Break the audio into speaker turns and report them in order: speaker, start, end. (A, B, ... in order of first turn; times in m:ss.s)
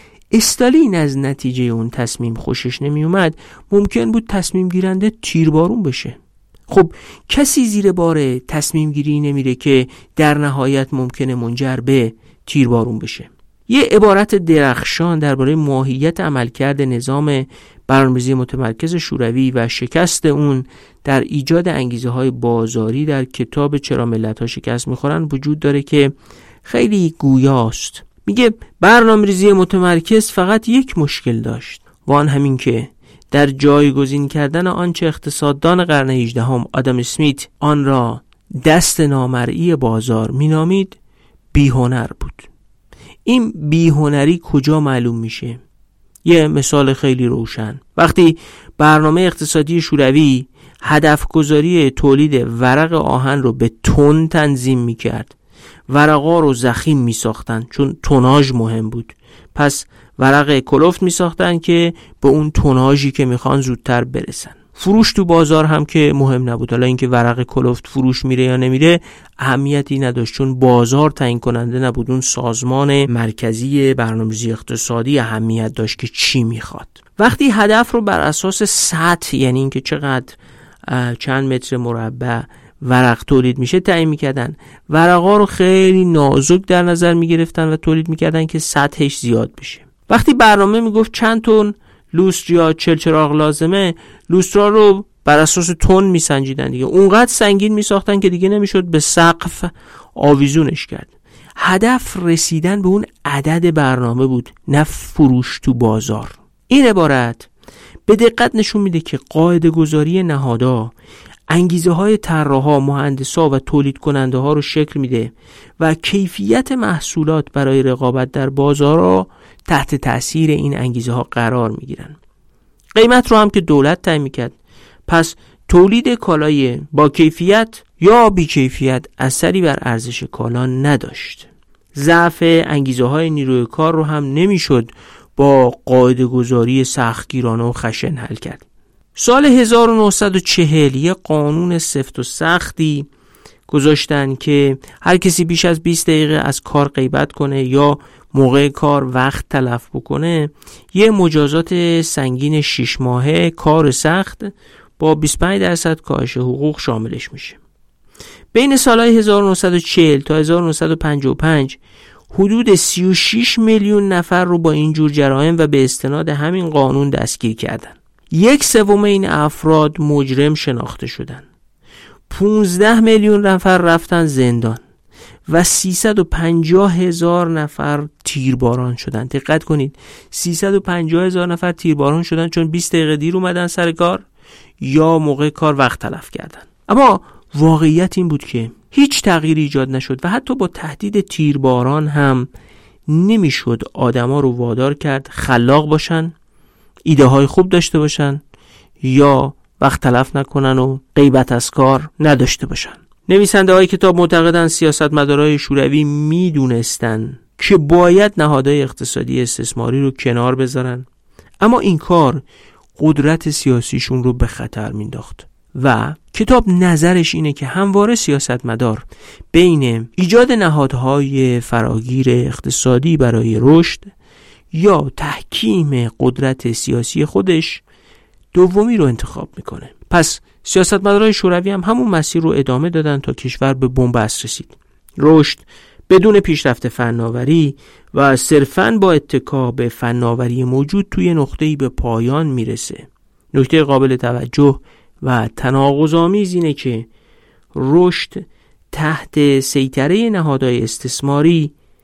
0:00.3-0:26.1 A
0:26.6-0:41.0 A
0:41.5-0:42.5 A
0:43.2-0:45.6 A
0:46.2-0:55.3 A
0:55.9-1:47.5 A
1:48.1-1:50.9 A
1:51.5-2:02.2 A
2:03.0-2:18.6 A
2:19.2-2:23.1 A
2:23.7-2:37.6 A
2:38.5-2:41.8 A
2:42.3-2:51.4 A
2:52.3-2:54.8 A
2:55.5-3:04.2 A
3:04.8-3:12.5 A
3:13.1-3:16.3 A
3:17.0-3:18.4 A
3:19.0-3:31.1 A
3:31.6-3:32.4 A
3:33.0-3:44.1 A
3:44.7-3:47.8 A
3:48.5-4:07.1 A
4:07.7-4:11.7 A